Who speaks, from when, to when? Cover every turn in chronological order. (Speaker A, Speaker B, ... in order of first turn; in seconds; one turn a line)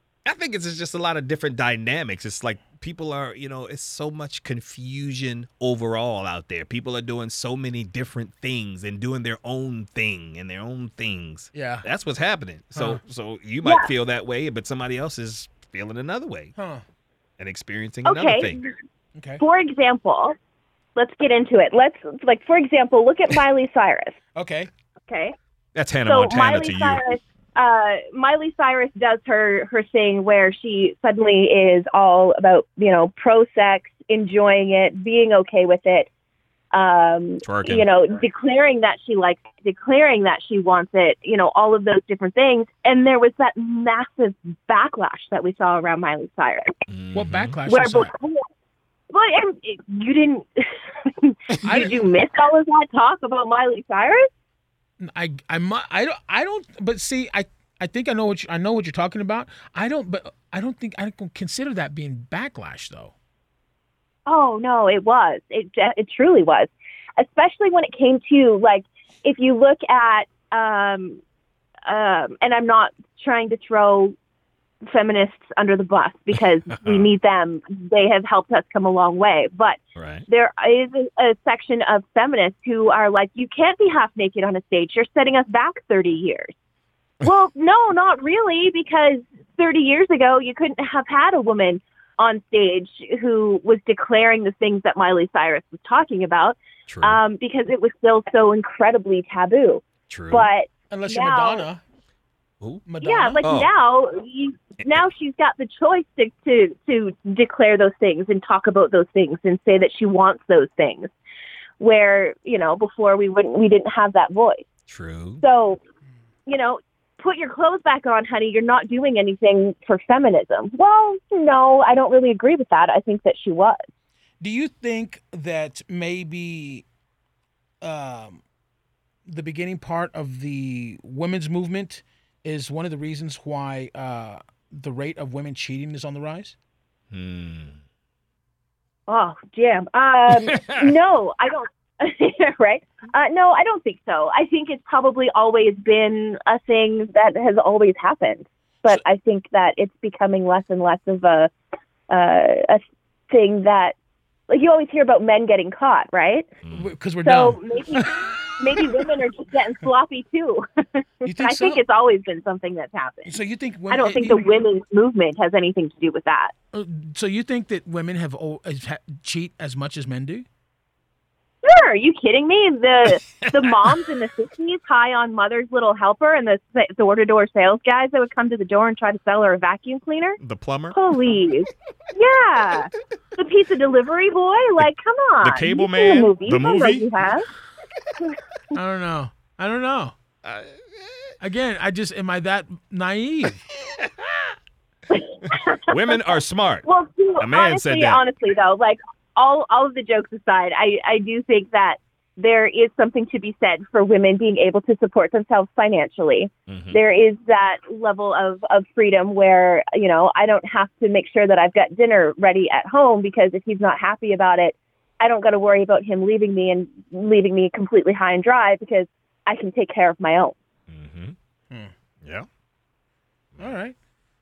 Speaker A: 0.2-16.5
Speaker B: 11.5-11.8
Speaker B: 12.8-13.0
Speaker C: 13.6-13.9
Speaker B: 16.6-16.8
Speaker A: 17.4-18.6
Speaker C: 18.1-18.7
Speaker B: 19.1-19.4
Speaker C: 19.4-20.3
Speaker C: 20.9-24.1
Speaker B: 24.4-24.7
Speaker C: 25.1-25.3
Speaker A: 25.7-27.0
Speaker C: 26.1-36.1
Speaker C: 36.7-46.7
Speaker A: 37.4-37.9
Speaker A: 46.9-47.5
Speaker B: 47.1-48.1
Speaker C: 47.7-48.4
Speaker C: 49.1-54.3
Speaker B: 51.6-52.0
Speaker B: 55.0-63.1
Speaker C: 64.3-71.2
Speaker C: 71.8-74.1
Speaker C: 74.8-86.5
Speaker A: 76.8-77.1
Speaker A: 80.0-80.2
Speaker C: 87.2-101.7
Speaker A: 96.9-97.2
Speaker A: 100.1-100.5
Speaker B: 100.9-101.8
Speaker B: 102.8-103.4
Speaker C: 103.0-111.1
Speaker A: 103.4-103.7
Speaker C: 111.8-114.6
Speaker A: 114.9-115.4
Speaker C: 115.4-115.8
Speaker C: 116.5-123.8
Speaker B: 124.4-126.8
Speaker B: 127.8-128.4
Speaker B: 129.3-136.5
Speaker A: 137.1-137.8
Speaker C: 139.1-151.5
Speaker A: 140.3-140.9
Speaker C: 152.1-153.9
Speaker C: 154.5-156.5
Speaker B: 156.7-159.0
Speaker C: 157.2-163.3
Speaker B: 161.2-161.8
Speaker B: 163.3-164.4
Speaker C: 163.9-166.5
Speaker B: 166.7-170.4
Speaker C: 171.6-180.4
Speaker A: 173.3-174.0
Speaker A: 180.4-181.0
Speaker C: 180.9-187.5
Speaker A: 185.4-187.1
Speaker B: 188.7-190.1
Speaker A: 190.4-191.3
Speaker B: 191.4-193.6
Speaker A: 193.7-194.5
Speaker C: 195.1-196.3
Speaker A: 195.4-196.8
Speaker C: 196.8-220.5
Speaker A: 197.4-198.2
Speaker A: 206.7-207.0
Speaker A: 220.9-221.3
Speaker A: 222.2-222.5
Speaker B: 223.6-223.9